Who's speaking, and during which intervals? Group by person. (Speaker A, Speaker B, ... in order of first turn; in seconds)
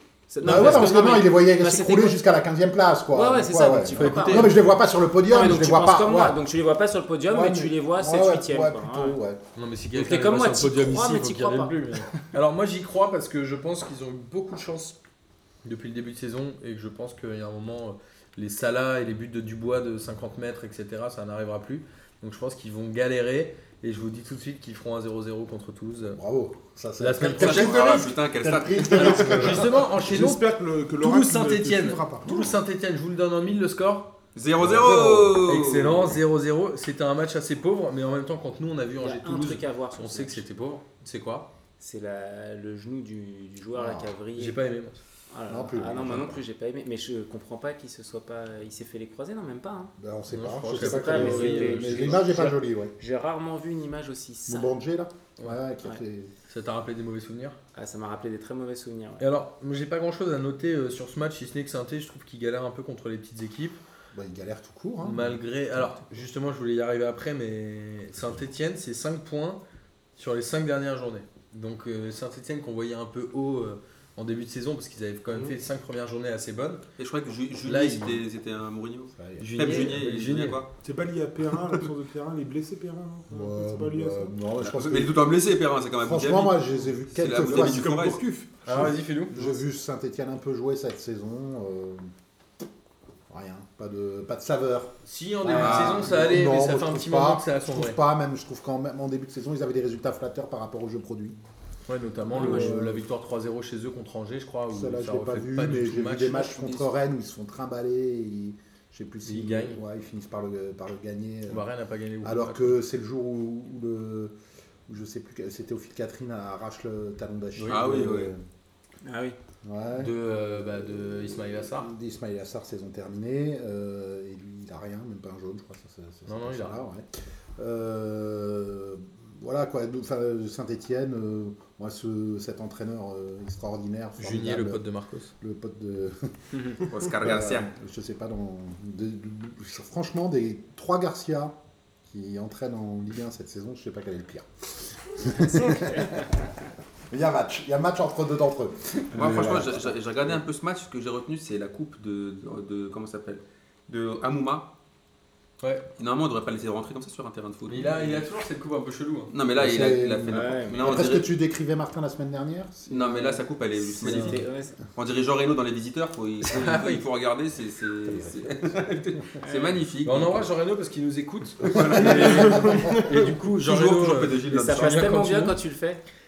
Speaker A: 0.3-2.2, 3.1-4.6, 5.2-9.2, 9.9-11.8, 39.0-40.4, 41.8-44.6, 45.3-49.9, 50.7-54.8, 57.7-59.3, 102.3-102.7, 106.4-106.9, 119.0-119.4, 145.6-146.1, 160.3-161.1, 164.0-164.8, 169.4-169.8, 174.6-176.0
Speaker B: 0.4-6.4, 7.3-9.4, 26.1-29.8, 34.6-35.3, 43.7-44.1, 45.5-46.4, 50.0-52.9, 54.5-56.3, 64.1-65.4, 79.2-79.8, 83.3-85.2, 86.0-92.1, 93.3-101.4, 102.3-103.0, 104.7-111.7, 112.2-114.3, 114.9-118.4, 119.6-127.0, 127.6-134.8, 135.4-141.5, 142.1-146.5, 147.1-150.4, 159.6-163.4, 168.1-168.8, 171.6-173.0
Speaker C: 0.4-0.9, 3.9-4.7, 9.6-15.0, 15.6-26.2, 27.0-28.0, 29.0-30.5, 31.0-41.5, 44.4-45.0, 50.3-52.3, 56.5-57.6, 59.2-63.8, 65.0-69.6, 70.2-76.8, 77.7-78.2, 79.4-80.6, 88.7-89.4, 95.0-98.0, 101.9-106.6, 109.2-109.8, 111.5-112.8, 117.6-118.1, 120.0-121.9, 126.3-126.8, 134.2-135.3, 155.6-155.9, 157.7-159.3, 164.0-164.4, 166.6-167.0, 170.0-175.6
Speaker D: 27.4-29.6, 34.4-36.1, 77.0-80.7, 84.6-88.2, 95.5-96.2, 117.7-118.3, 136.8-137.7, 149.2-154.7, 156.0-158.2, 159.3-161.3, 162.9-170.4, 171.7-175.2
Speaker E: 28.9-32.5, 75.3-75.5, 80.8-84.3, 87.4-88.9, 172.2-172.9